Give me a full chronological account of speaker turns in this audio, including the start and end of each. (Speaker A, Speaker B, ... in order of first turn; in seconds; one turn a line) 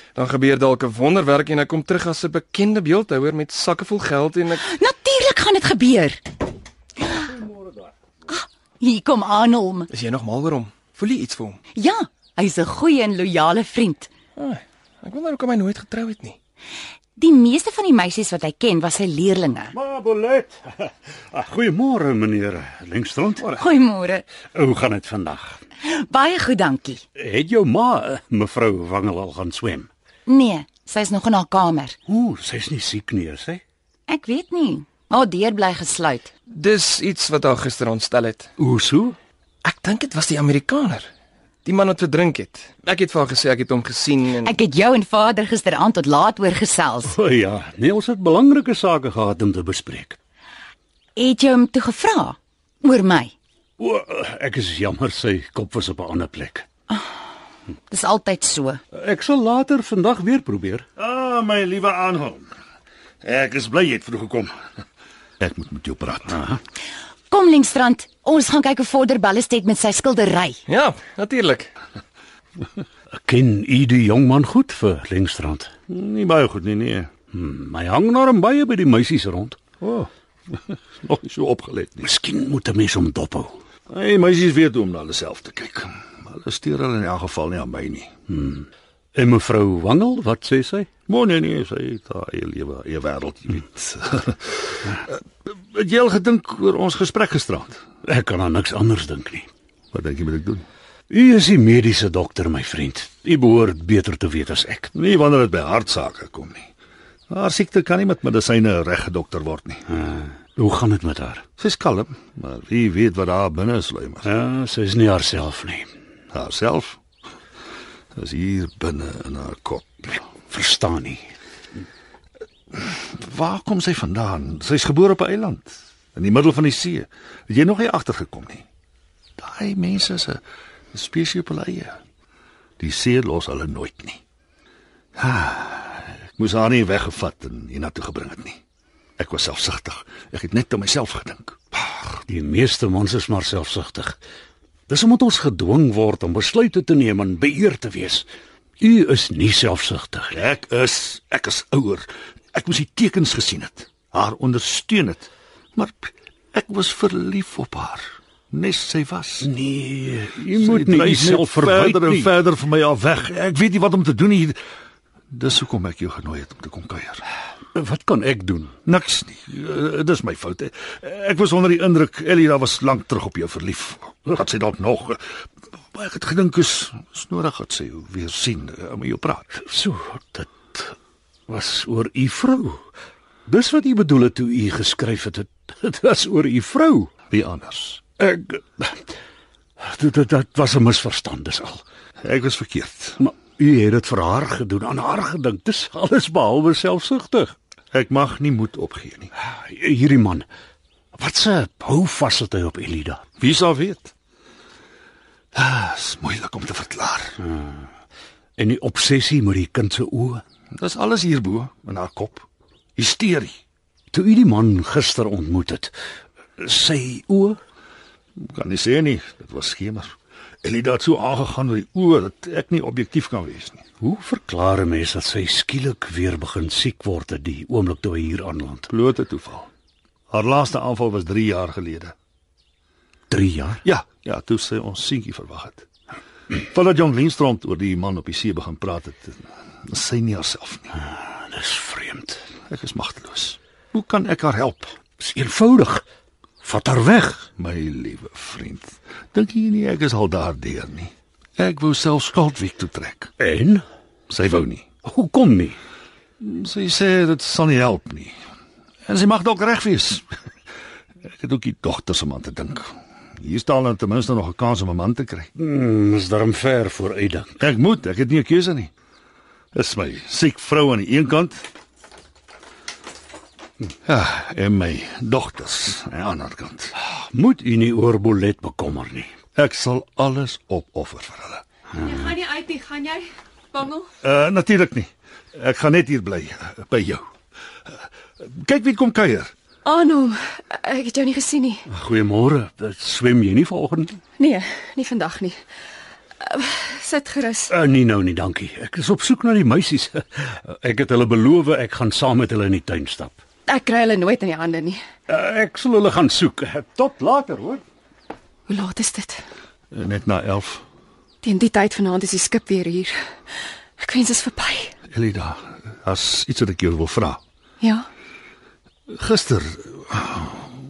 Speaker A: 0.1-4.6
Speaker B: 4.6-6.2
Speaker B: 7.0-7.3
Speaker C: 7.2-7.8
Speaker B: 8.3-9.9
Speaker A: 9.9-11.6
Speaker B: 11.8-14.1
Speaker A: 14.4-16.4
Speaker B: 17.2-19.7
Speaker C: 19.7-23.5
Speaker B: 23.6-24.2
Speaker C: 24.5-25.6
Speaker B: 25.8-27.0
Speaker C: 27.1-29.9
Speaker B: 30.2-32.0
Speaker C: 32.1-33.6
Speaker B: 34.1-36.3
Speaker A: 36.5-38.5
Speaker C: 38.6-39.2
Speaker A: 39.6-41.1
Speaker A: 41.6-44.5
Speaker B: 44.4-47.1
Speaker C: 47.0-50.2
Speaker B: 51.1-53.3
Speaker C: 53.8-56.7
Speaker B: 57.9-58.8
Speaker C: 58.9-60.9
Speaker D: 61.0-62.5
Speaker D: 63.2-64.5
Speaker D: 65.4-66.5
Speaker C: 66.3-66.6
Speaker B: 67.3-70.6
Speaker A: 70.7-71.7
Speaker C: 73.1-75.7
Speaker D: 75.9-77.1
Speaker C: 77.3-79.6
Speaker D: 79.8-80.1
Speaker D: 80.7-82.1
Speaker C: 82.0-83.6
Speaker D: 83.9-88.1
Speaker C: 88.3-90.9
Speaker D: 91.1-97.8
Speaker C: 98.0-99.5
Speaker D: 99.9-100.6
Speaker C: 101.1-104.9
Speaker D: 104.9-106.7
Speaker D: 107.3-109.8
Speaker C: 109.9-111.4
Speaker D: 111.6-114.3
Speaker C: 114.2-115.9
Speaker D: 116.3-117.0
Speaker D: 118.2-120.2
Speaker C: 120.5-121.3
Speaker D: 122.8-128.6
Speaker D: 129.4-130.4
Speaker D: 130.9-132.0
Speaker D: 132.8-134.2
Speaker D: 135.2-138.6
Speaker D: 139.2-141.6
Speaker C: 142.2-144.2
Speaker C: 144.9-148.3
Speaker C: 148.8-150.4
Speaker D: 150.3-159.5
Speaker C: 159.4-162.3
Speaker D: 160.6-164.6
Speaker D: 165.3-167.2
Speaker C: 167.7-168.8
Speaker D: 168.8-175.2
Speaker D: 175.9-179.5
Speaker C: 179.5-180.9
Speaker C: 181.5-182.8
Speaker C: 183.4-187.1
Speaker D: 187.3-188.0
Speaker C: 188.2-189.1
Speaker C: 189.8-191.8
Speaker D: 192.2-193.2
Speaker C: 193.2-197.6
Speaker D: 197.9-199.3
Speaker C: 199.4-200.5
Speaker C: 201.1-203.2
Speaker D: 203.4-204.1
Speaker D: 205.5-207.3
Speaker C: 207.4-207.9
Speaker C: 208.6-210.4
Speaker D: 210.8-213.6
Speaker C: 214.1-215.9
Speaker C: 216.6-217.6
Speaker D: 218.4-223.8
Speaker C: 224.0-228.9
Speaker D: 228.9-229.7
Speaker D: 230.3-232.1
Speaker C: 233.3-233.8
Speaker D: 233.8-235.8
Speaker D: 236.7-240.9
Speaker C: 241.1-242.4
Speaker D: 242.7-244.9
Speaker C: 245.2-246.0
Speaker C: 246.6-247.5
Speaker D: 247.6-253.3
Speaker C: 253.4-253.8
Speaker D: 254.3-254.9
Speaker C: 255.0-255.8
Speaker D: 256.4-258.4
Speaker D: 259.1-260.2
Speaker D: 261.3-265.5
Speaker C: 265.6-267.6
Speaker D: 267.6-268.9
Speaker D: 269.7-271.6
Speaker D: 274.1-276.9
Speaker C: 277.0-279.3
Speaker D: 279.6-281.6
Speaker E: 282.0-284.1
Speaker D: 284.2-287.2
Speaker D: 288.4-289.5
Speaker E: 289.8-291.8
Speaker C: 291.9-294.2
Speaker E: 294.4-295.6
Speaker E: 296.4-297.7
Speaker C: 297.7-303.4
Speaker E: 303.7-305.0
Speaker C: 305.3-307.8
Speaker E: 308.7-309.4
Speaker D: 309.9-310.8
Speaker E: 311.4-313.1
Speaker E: 314.0-314.9
Speaker D: 315.1-317.4
Speaker D: 319.1-320.8